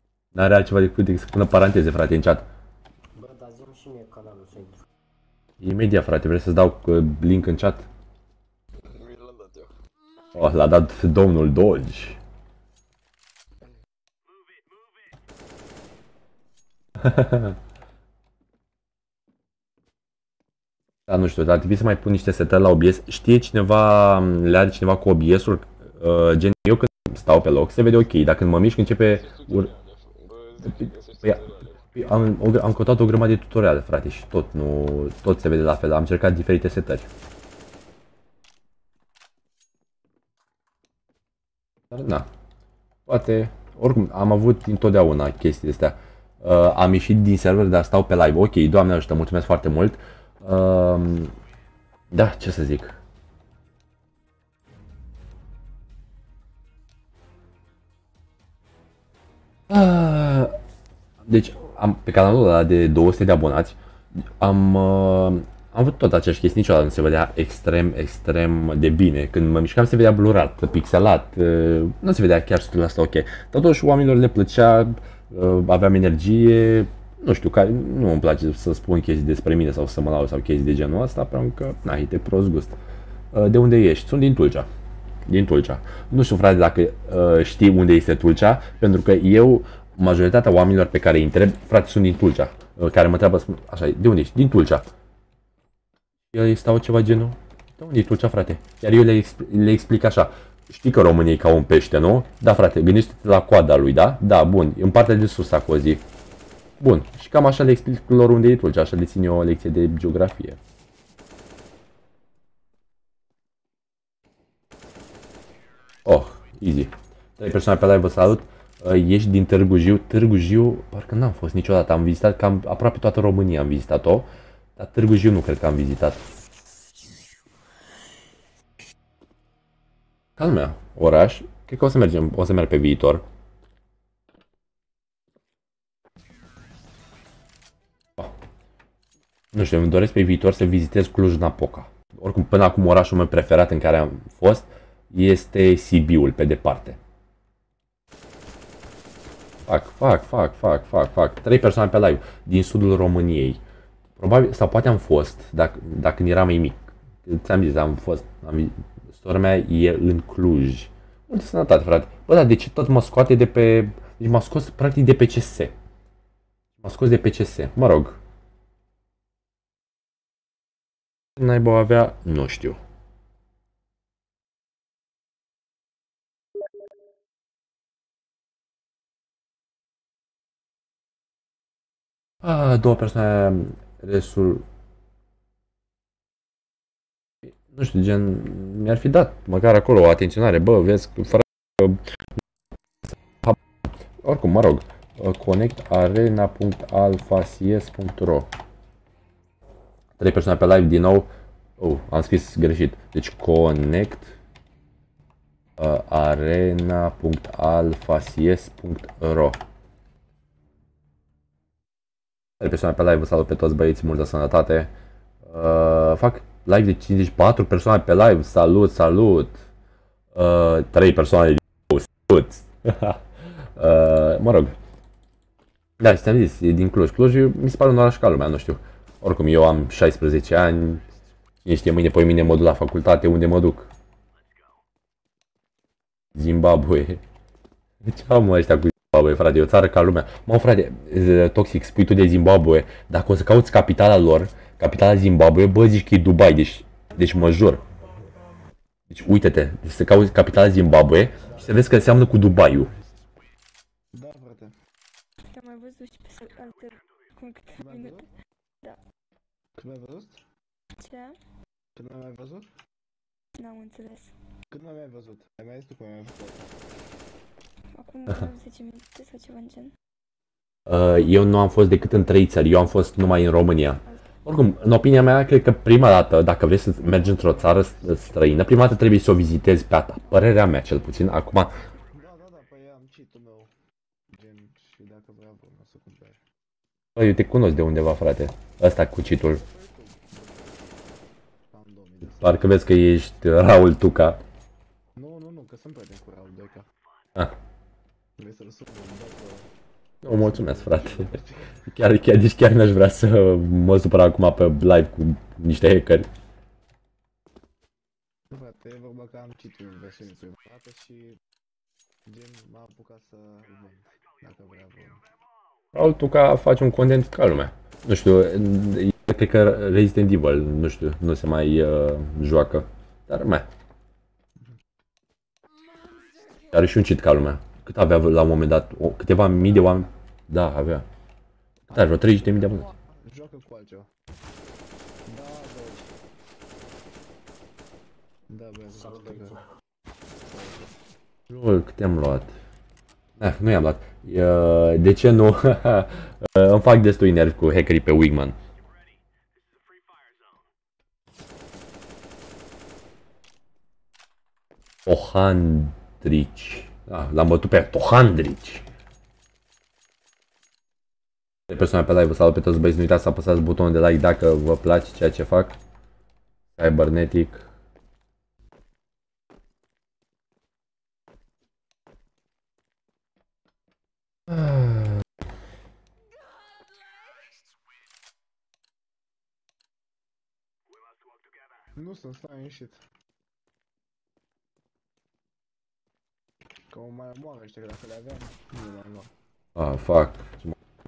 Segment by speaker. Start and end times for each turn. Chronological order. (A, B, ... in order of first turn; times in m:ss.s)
0:00.3-0:02.5 A
0:03.1-0:04.8 B
0:05.6-0:07.9 A
0:08.8-0:09.7 C
0:10.0-0:10.7 D
0:10.4-0:12.2 A
0:17.0-0:17.6 A
0:21.1-0:29.7 A
0:29.1-0:32.0 C
0:32.0-0:37.1 A
0:41.9-0:42.3 A
0:43.1-0:51.3 A
0:52.1-0:53.0 A
0:59.7-1:00.6 A
1:01.2-1:03.8 A
1:04.4-1:22.8 A
1:23.3-1:24.7 A
1:25.3-1:34.9 A
1:36.3-1:46.0 A
1:46.8-1:50.6 A
1:56.1-2:06.2 A
2:10.4-2:13.2 A
2:19.5-2:27.0 A
2:29.7-2:33.6 A
2:34.2-2:45.7 A
2:46.8-2:48.2 A
2:51.4-2:52.8 A
3:02.4-3:04.6 A
3:07.6-3:12.0 A
3:14.2-3:18.5 A
3:20.2-3:24.3 A
3:25.8-3:29.6 A
3:32.6-3:34.9 A
3:35.5-3:39.6 A
3:40.3-3:43.2 A
3:43.8-3:44.7 A
3:46.0-3:51.0 A
3:51.6-3:53.9 A
3:56.4-3:57.2 A
3:58.0-4:07.8 A
4:09.1-4:12.9 A
4:14.1-4:14.8 E
4:15.4-4:18.2 D
4:17.8-4:18.3 E
4:19.8-4:20.4 E
4:21.0-4:21.4 D
4:21.9-4:22.7 E
4:23.6-4:24.3 D
4:24.7-4:26.7 E
4:28.0-4:29.9 D
4:30.9-4:41.7 A
4:37.2-4:38.3 E
4:42.1-4:43.7 E
4:44.3-4:46.4 E
4:47.2-4:49.6 A
4:49.4-4:52.9 E
4:52.4-4:54.4 A
4:55.2-4:56.9 E
4:58.4-4:59.7 E
5:00.2-5:01.4 A
5:00.3-5:01.7 E
5:01.9-5:06.3 A
5:08.5-5:11.4 E
5:12.3-5:15.2 E
5:15.9-5:23.7 A
5:25.7-5:26.9 D
5:26.7-5:31.0 A
5:31.9-5:34.1 E
5:31.9-5:32.9 A
5:35.2-5:36.1 E
5:38.5-5:39.6 E
5:39.1-5:39.5 B
5:40.4-5:40.9 E
5:41.5-5:42.5 A
5:43.4-5:48.6 A
5:55.1-5:58.9 A
6:01.7-6:05.8 A
6:06.8-6:07.6 A
6:14.5-6:15.2 A
6:16.2-6:17.7 D
6:22.0-6:23.0 E
6:26.9-6:29.3 E
6:29.8-6:30.8 A